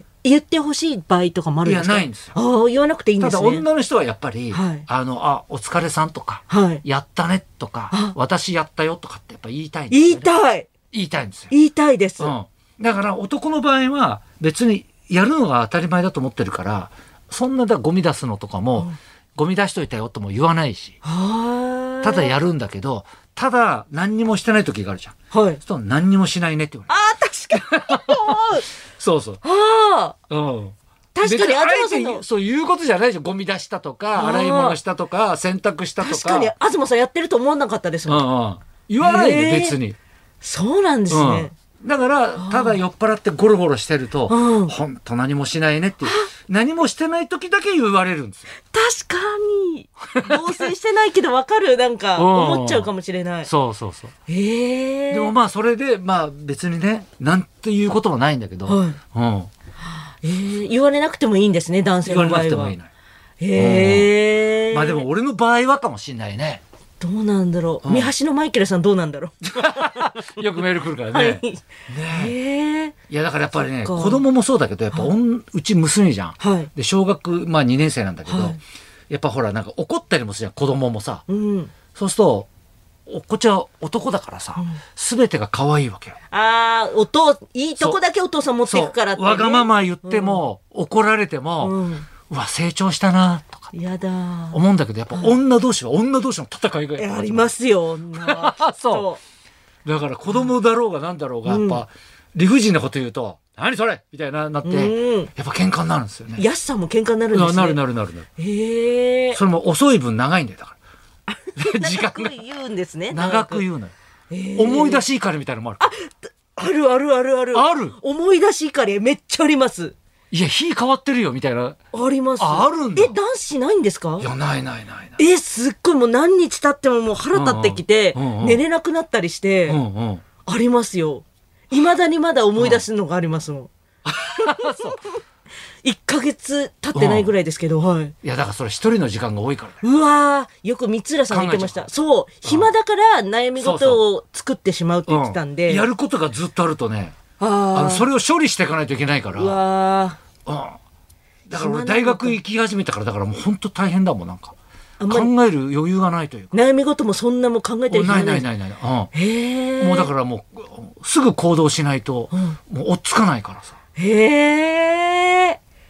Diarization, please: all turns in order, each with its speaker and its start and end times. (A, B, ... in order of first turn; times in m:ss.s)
0:00.2-0:03.6 A
0:01.6-0:02.4 B
0:03.2-0:10.3 B
0:04.5-0:04.8 A
0:06.5-0:06.8 A
0:07.9-0:08.2 A
0:09.9-0:10.7 A
0:10.9-0:11.5 B
0:11.5-0:12.3 A
0:12.2-0:21.0 B
0:21.0-0:22.3 A
0:22.0-0:26.9 B
0:25.3-0:25.6 A
0:26.9-0:28.6 A
0:27.5-0:28.1 B
0:29.0-0:29.4 B
0:29.4-0:30.2 A
0:30.3-0:36.5 B
0:31.1-0:32.2 A
0:34.1-0:34.8 A
0:36.0-0:38.2 A
0:38.0-0:40.0 B
0:39.0-0:39.8 A
0:40.4-0:41.5 A
0:41.1-0:48.5 B
0:42.4-0:42.8 A
0:44.3-0:44.7 A
0:46.0-0:46.3 A
0:48.7-0:53.5 A
0:52.2-0:52.9 B
0:53.4-0:54.1 B
0:54.3-0:55.3 A
0:55.1-0:59.5 B
0:58.6-0:59.0 A
1:00.0-1:02.8 A
1:02.0-1:02.9 B
1:03.4-1:05.0 A
1:03.5-1:04.1 B
1:04.7-1:06.6 B
1:07.0-1:10.2 A
1:07.8-1:08.1 B
1:09.4-1:12.3 B
1:11.1-1:12.9 A
1:13.1-1:21.2 B
1:13.8-1:14.2 A
1:16.4-1:16.7 A
1:18.3-1:18.6 A
1:21.3-1:21.7 A
1:21.9-1:22.5 B
1:23.1-1:26.2 B
1:26.3-1:30.4 A
1:28.6-1:33.7 B
1:31.6-1:32.1 A
1:33.7-1:34.6 A
1:34.5-1:37.5 B
1:37.0-1:39.2 A
1:38.2-1:39.0 B
1:39.8-1:46.4 B
1:41.4-1:41.8 A
1:44.6-1:45.3 A
1:46.4-1:47.8 A
1:47.3-1:48.3 B
1:48.4-1:49.4 A
1:49.3-1:50.8 B
1:51.3-1:53.6 A
1:51.5-1:52.4 B
1:53.1-1:53.9 B
1:54.3-1:55.0 A
1:54.6-1:55.9 B
1:55.8-2:00.0 A
1:57.5-1:58.0 B
2:00.3-2:01.8 B
2:01.9-2:04.3 A
2:02.4-2:03.1 B
2:04.2-2:05.2 B
2:05.2-2:09.8 A
2:07.3-2:08.6 B
2:09.7-2:10.2 B
2:10.4-2:13.7 A
2:12.6-2:12.8 B
2:14.0-2:15.0 B
2:14.4-2:15.2 A
2:15.8-2:18.1 A
2:16.9-2:17.3 B
2:18.2-2:19.8 B
2:19.8-2:25.8 A
2:21.3-2:21.9 B
2:22.4-2:22.7 B
2:23.6-2:24.0 B
2:25.1-2:27.2 B
2:27.4-2:28.1 A
2:27.7-2:29.6 B
2:29.3-2:30.2 A
2:30.4-2:30.8 B
2:31.5-2:34.5 B
2:31.5-2:32.4 A
2:35.0-2:35.3 A
2:35.1-2:36.5 B
2:36.5-2:38.5 A
2:37.9-2:39.1 B
2:39.1-2:40.1 A
2:39.8-2:43.7 B
2:42.3-2:42.6 A
2:44.0-2:45.6 A